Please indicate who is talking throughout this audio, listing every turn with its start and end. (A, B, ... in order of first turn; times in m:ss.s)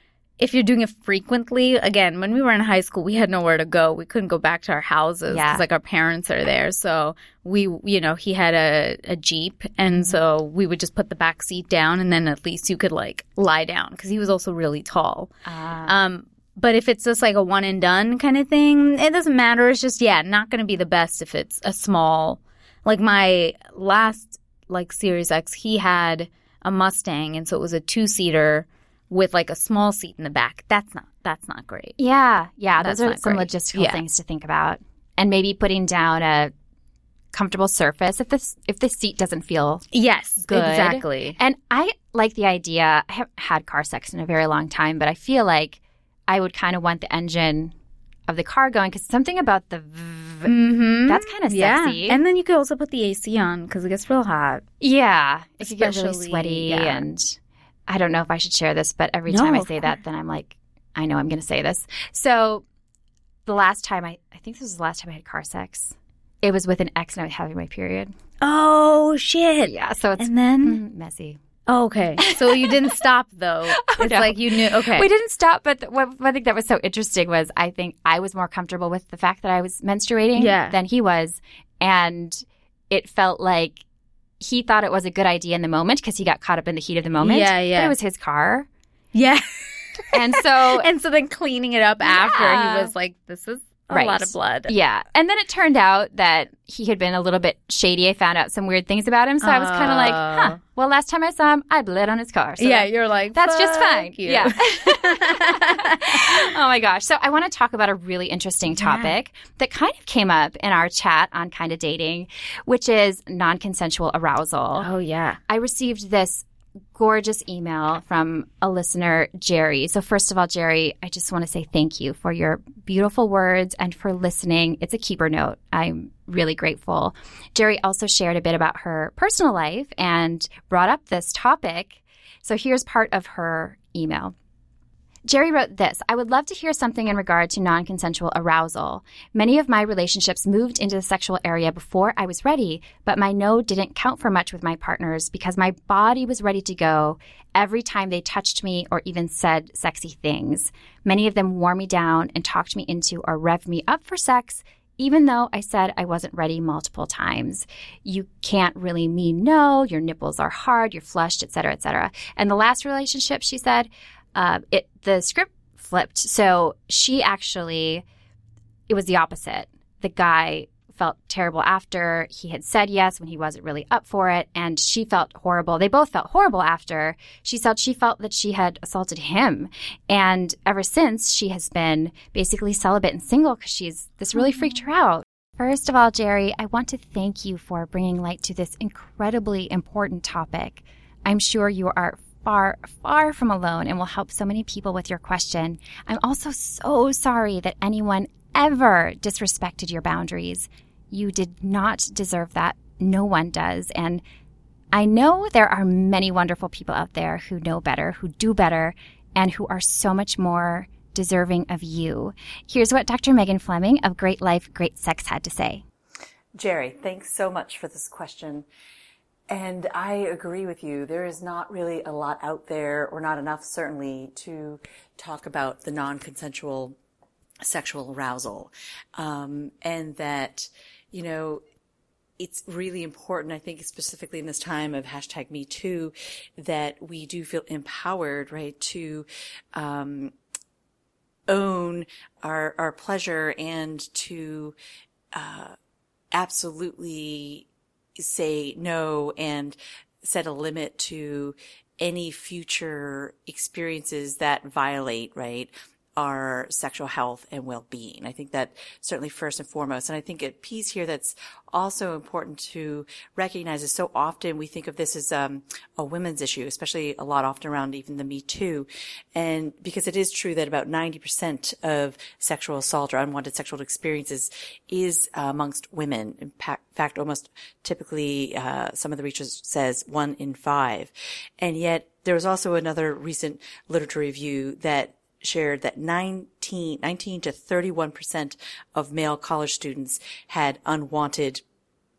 0:00.4-0:15.3 A
0:05.3-0:05.6 B
0:15.4-0:16.0 B
0:15.9-0:32.0 A
0:32.0-0:36.5 B
0:32.8-0:34.0 A
0:37.3-0:39.9 B
0:39.9-0:41.4 A
0:40.5-0:47.7 B
0:48.3-0:50.5 B
0:50.4-0:54.6 A
0:51.1-0:52.2 B
0:54.8-1:02.6 B
0:55.6-0:57.1 A
0:59.3-1:00.0 A
1:03.4-1:08.1 B
1:08.4-1:10.8 A
1:09.6-1:11.4 B
1:11.7-1:15.1 A
1:12.2-1:13.0 B
1:13.7-1:23.8 B
1:20.4-1:20.8 A
1:24.4-1:28.7 B
1:27.2-1:27.9 A
1:29.1-1:34.7 A
1:30.1-1:30.9 B
1:32.0-1:32.9 B
1:33.9-1:54.9 B
1:39.4-1:40.6 A
1:42.6-1:46.3 A
1:48.8-1:49.1 A
1:54.8-1:55.4 A
1:55.5-2:14.4 B
2:15.3-2:48.0 B
2:48.9-3:24.2 B
3:24.9-3:35.8 B
3:36.6-3:38.6 C
3:39.5-3:46.9 C
3:47.6-3:51.6 C
3:52.4-4:00.3 C
4:01.5-4:04.8 C
4:05.3-4:05.8 C
4:06.3-4:07.6 C
4:08.2-4:51.6 C